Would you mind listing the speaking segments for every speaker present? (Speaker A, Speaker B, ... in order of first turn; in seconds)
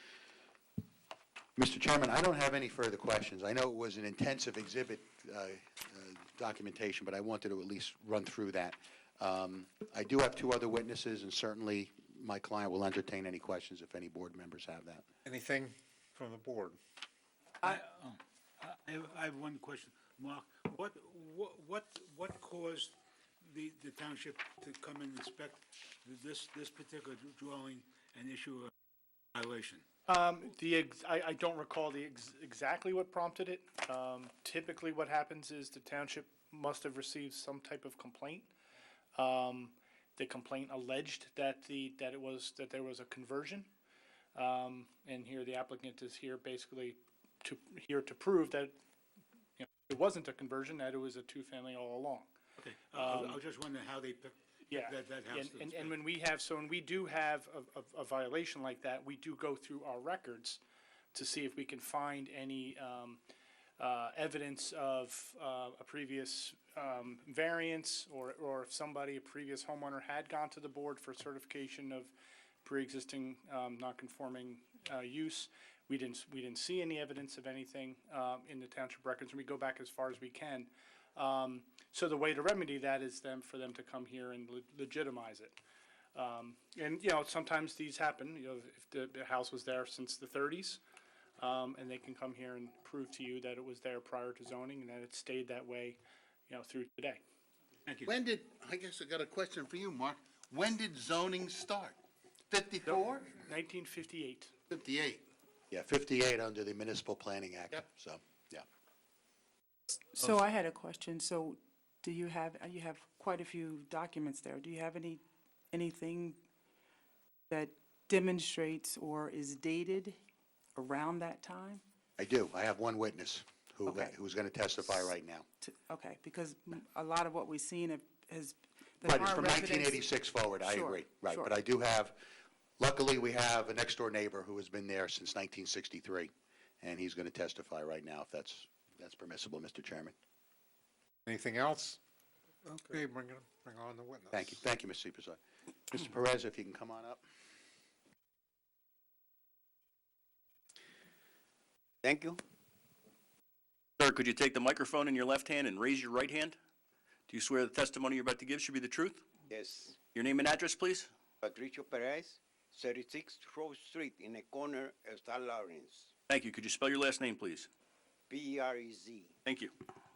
Speaker A: 1.6-15.0, 105.7-108.6, 122.2-125.5, 129.0-132.2, 132.8-136.3, 136.8-140.1, 144.3-147.2
Speaker B: 15.2-16.8, 141.2-142.0, 142.7-144.5
Speaker C: 17.7-28.7, 29.3-29.8, 52.6-55.8
Speaker D: 30.1-38.5, 39.1-43.7, 44.3-48.8, 49.6-52.3, 52.9-53.5, 54.7-60.6, 61.1-63.2, 63.8-72.1, 72.6-85.6, 86.1-90.8, 91.4-97.2, 102.9-104.5
Speaker E: 98.0-102.0, 102.5-103.4, 104.7-105.2
Speaker F: 109.9-116.4, 117.5-120.2, 120.8-121.8, 123.8-124.1, 124.8-130.0, 130.6-131.5
Speaker G: 152.0-152.4, 159.5-160.0, 161.4-166.1, 168.3-169.3
Speaker H: 154.0-156.6, 157.3-159.2, 160.1-161.1, 166.3-167.7, 169.4-169.7